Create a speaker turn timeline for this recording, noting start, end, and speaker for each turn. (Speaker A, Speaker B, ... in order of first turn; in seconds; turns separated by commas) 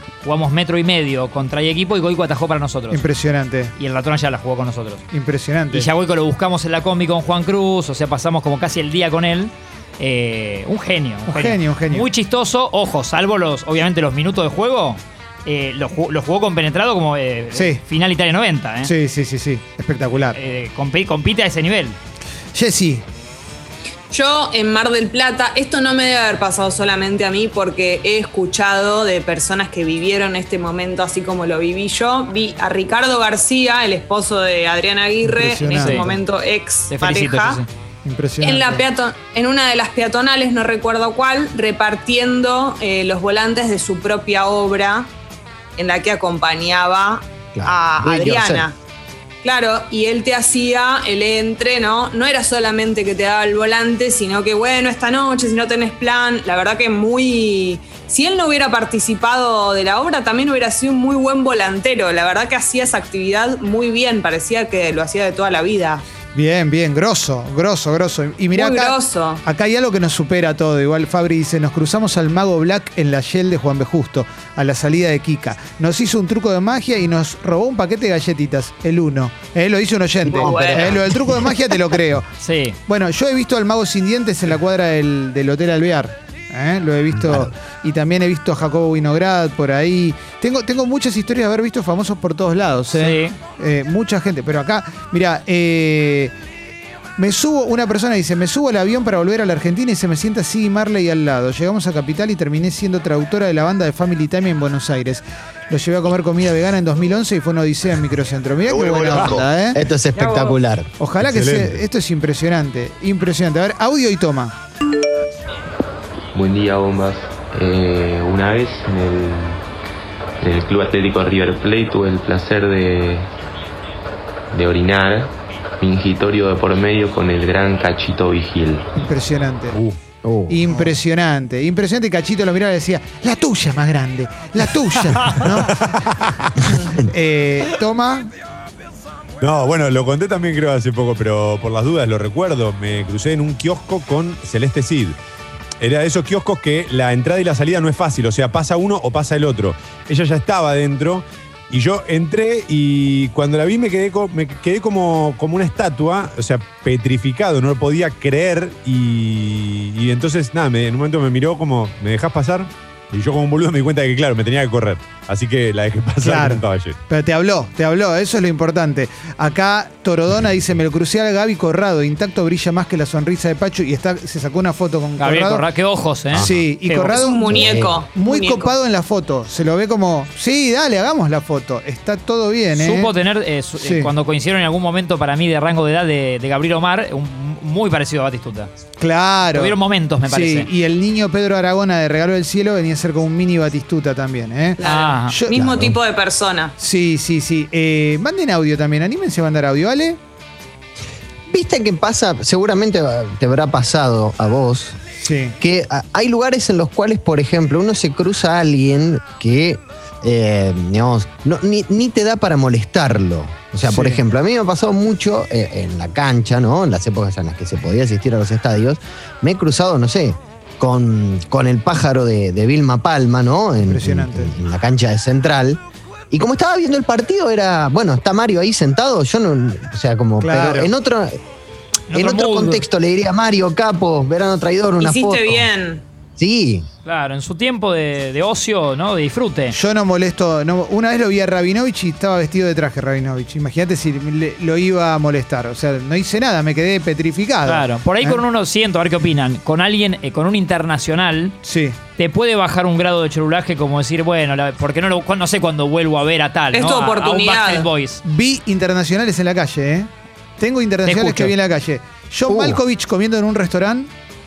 Speaker A: 0.2-3.0, Speaker B: 2.9-3.7, Speaker A: 3.8-5.0, Speaker B: 5.1-5.9, Speaker A: 5.7-18.9, Speaker B: 11.3-12.1, Speaker B: 17.5-17.8, Speaker B: 18.8-20.4, Speaker A: 20.3-22.0, Speaker B: 22.5-23.0, Speaker C: 24.1-37.6, Speaker B: 35.2-36.1, Speaker A: 35.8-36.1, Speaker A: 36.9-37.7, Speaker B: 38.0-38.8, Speaker C: 38.4-45.1, Speaker C: 45.8-48.8, Speaker D: 47.5-48.7, Speaker C: 49.4-66.0, Speaker B: 66.3-82.3, Speaker C: 68.5-69.4, Speaker C: 80.3-81.0, Speaker D: 80.3-81.2, Speaker A: 82.4-82.8, Speaker B: 82.9-96.3, Speaker D: 87.1-87.5, Speaker A: 92.9-93.3, Speaker B: 97.2-109.8, Speaker D: 108.8-110.9, Speaker C: 110.2-110.5, Speaker B: 111.0-114.5, Speaker E: 111.2-111.8, Speaker F: 116.3-119.6, Speaker F: 120.4-123.3, Speaker F: 124.5-128.9, Speaker B: 128.9-129.8, Speaker D: 130.2-130.9, Speaker B: 130.5-136.0, Speaker E: 135.7-136.4, Speaker B: 137.0-138.3, Speaker E: 139.4-145.2, Speaker E: 145.8-167.0, Speaker B: 166.2-175.6, Speaker A: 175.2-177.2, Speaker B: 176.4-183.1, Speaker C: 177.1-178.7, Speaker D: 177.4-178.0, Speaker A: 182.8-188.7, Speaker B: 183.8-184.1, Speaker B: 189.0-189.7, Speaker A: 189.5-190.7, Speaker B: 190.3-195.8, Speaker C: 194.8-196.7, Speaker A: 194.8-195.3, Speaker D: 195.6-195.9, Speaker B: 196.8-200.2, Speaker D: 201.5-205.0, Speaker B: 205.2-205.5, Speaker D: 205.6-231.4, Speaker B: 213.8-214.2, Speaker B: 223.8-224.5, Speaker B: 230.4-230.9, Speaker A: 232.1-232.8, Speaker D: 232.1-235.7, Speaker C: 235.0-236.0, Speaker D: 236.4-236.9, Speaker A: 237.1-239.7, Speaker B: 239.7-248.4, Speaker A: 247.7-251.6, Speaker B: 251.6-252.0, Speaker A: 252.2-258.2, Speaker C: 256.7-257.9, Speaker B: 258.2-264.1, Speaker A: 261.1-261.5, Speaker D: 262.5-262.8